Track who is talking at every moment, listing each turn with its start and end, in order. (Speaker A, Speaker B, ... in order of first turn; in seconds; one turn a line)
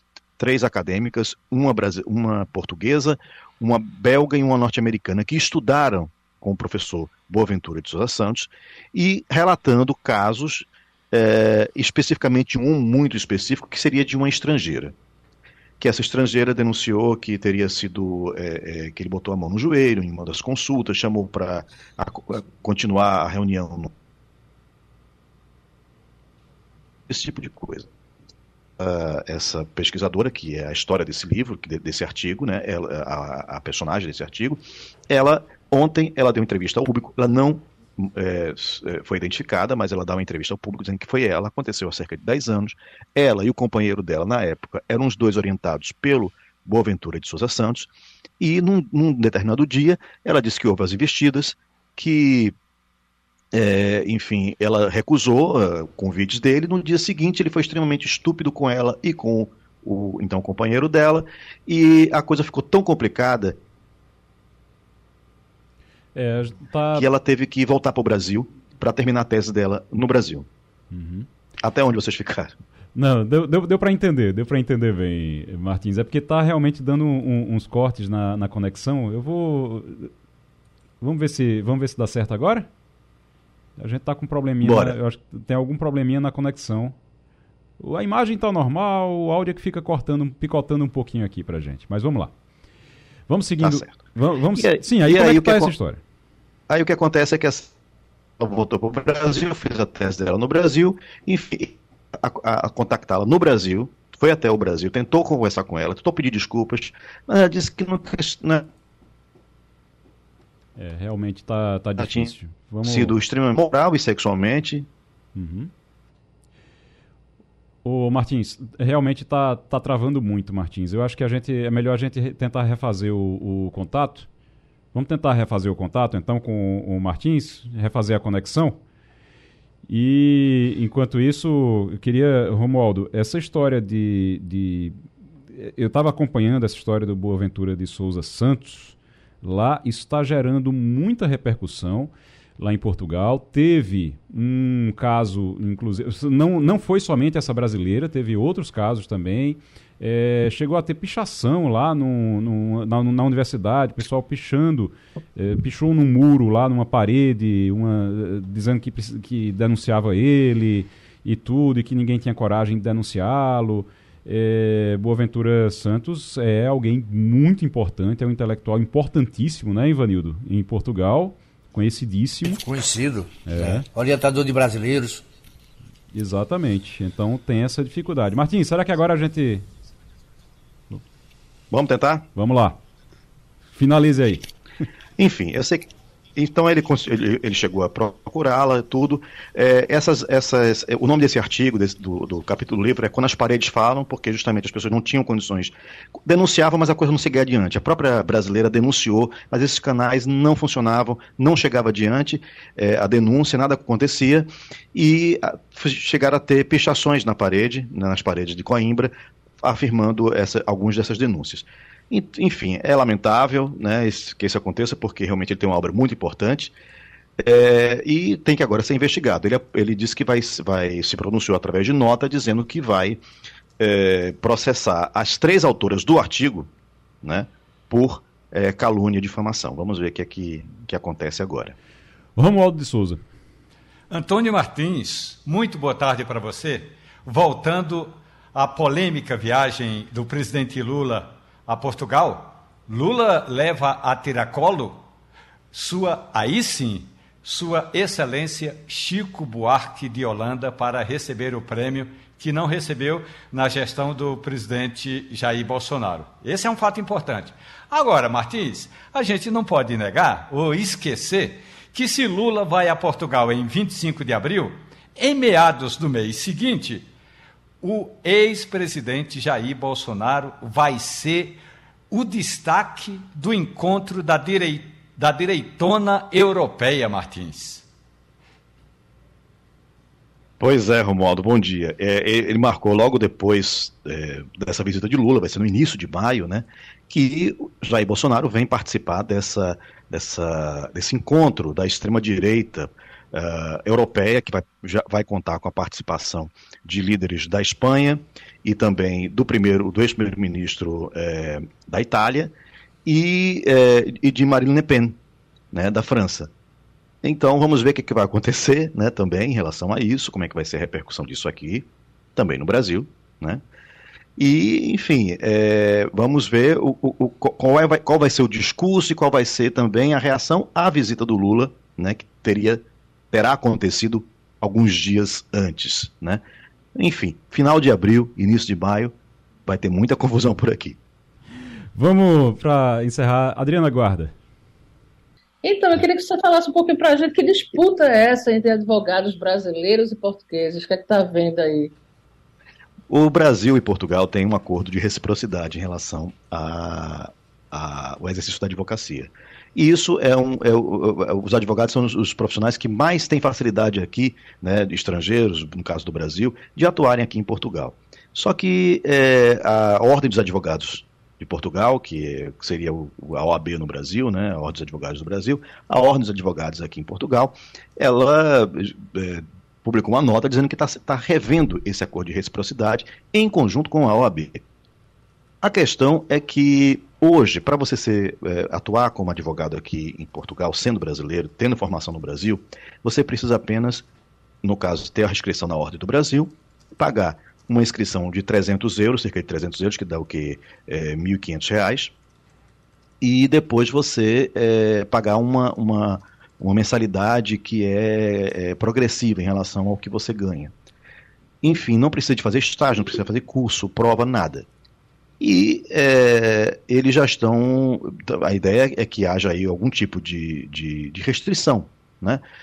Speaker A: 0.4-14.9
Speaker A: 15.8-23.9
Speaker A: 27.1-27.9
Speaker A: 28.8-52.5
Speaker A: 53.5-63.6
Speaker B: 66.1-67.1
Speaker A: 66.9-70.5
Speaker B: 70.9-71.3
Speaker A: 71.6-72.5
Speaker B: 72.9-80.1
Speaker B: 81.0-82.7
Speaker B: 83.8-86.9
Speaker A: 84.6-85.0
Speaker B: 87.8-92.3
Speaker B: 93.3-96.0
Speaker A: 93.6-94.0
Speaker A: 94.5-95.7
Speaker A: 96.7-97.7
Speaker A: 98.4-108.7
Speaker B: 110.8-113.1
Speaker A: 112.0-112.3
Speaker A: 112.8-114.9
Speaker B: 115.3-115.7
Speaker B: 117.8-124.3
Speaker B: 124.9-128.8
Speaker B: 129.9-135.0
Speaker B: 135.5-172.6
Speaker C: 172.6-175.2
Speaker B: 173.4-173.8
Speaker B: 176.1-179.7
Speaker A: 181.7-182.3
Speaker B: 182.3-182.8
Speaker B: 183.7-184.4
Speaker A: 185.2-216.7
Speaker A: 217.4-223.2
Speaker A: 223.8-226.7
Speaker A: 227.2-231.7
Speaker B: 232.3-233.2
Speaker D: 234.1-245.0
Speaker D: 245.7-267.1
Speaker D: 267.8-271.6
Speaker D: 272.1-277.9
Speaker A: 280.6-302.5
Speaker A: 303.1-305.2
Speaker A: 305.7-306.5
Speaker A: 307.2-313.6
Speaker A: 314.4-326.4
Speaker A: 326.9-329.1
Speaker A: 329.6-331.0
Speaker B: 331.9-334.3
Speaker E: 335.6-341.9
Speaker A: 343.1-374.6
Speaker A: 375.6-384.1
Speaker A: 384.6-392.1
Speaker A: 393.2-400.7
Speaker A: 401.6-404.6
Speaker A: 405.4-412.4